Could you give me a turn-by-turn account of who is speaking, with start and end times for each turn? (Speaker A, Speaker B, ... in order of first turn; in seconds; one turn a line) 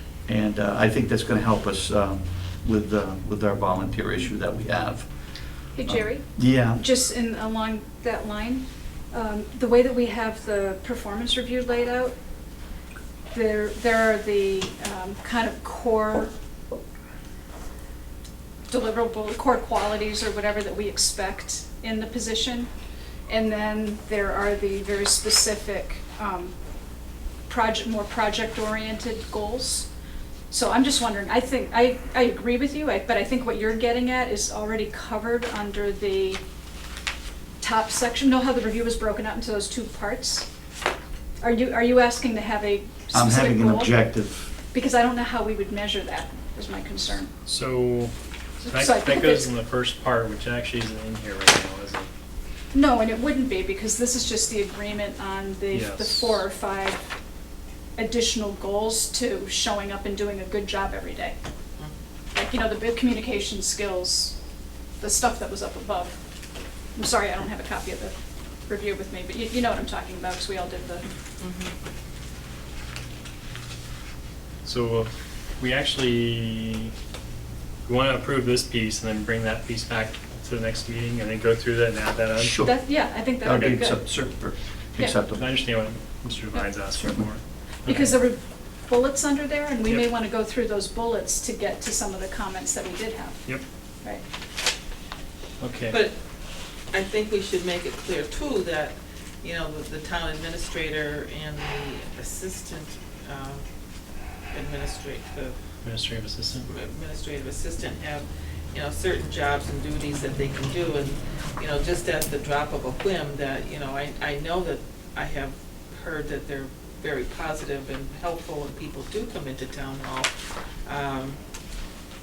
Speaker A: 0.2-5.1
Speaker B: 5.7-12.1
Speaker A: 5.8-6.8
Speaker B: 13.3-16.3
Speaker B: 18.7-22.7
Speaker B: 23.3-26.5
Speaker B: 27.5-29.9
Speaker B: 30.5-36.4
Speaker B: 37.6-40.5
Speaker B: 41.4-44.0
Speaker A: 43.1-44.5
Speaker B: 44.7-47.3
Speaker C: 47.5-48.1
Speaker B: 48.6-49.5
Speaker C: 48.7-52.1
Speaker B: 52.7-57.1
Speaker C: 55.7-56.4
Speaker B: 58.0-61.4
Speaker B: 62.3-64.4
Speaker B: 65.0-66.2
Speaker B: 67.0-68.1
Speaker B: 68.7-71.0
Speaker D: 71.4-71.7
Speaker C: 74.6-76.9
Speaker C: 77.8-82.5
Speaker A: 82.3-85.5
Speaker B: 82.6-84.1
Speaker C: 83.5-83.8
Speaker C: 85.2-88.2
Speaker A: 87.0-87.3
Speaker B: 87.9-93.4
Speaker C: 95.6-96.0
Speaker D: 95.9-96.2
Speaker D: 96.9-103.6
Speaker D: 104.5-105.5
Speaker C: 105.8-106.7
Speaker D: 106.7-120.3
Speaker D: 120.8-121.4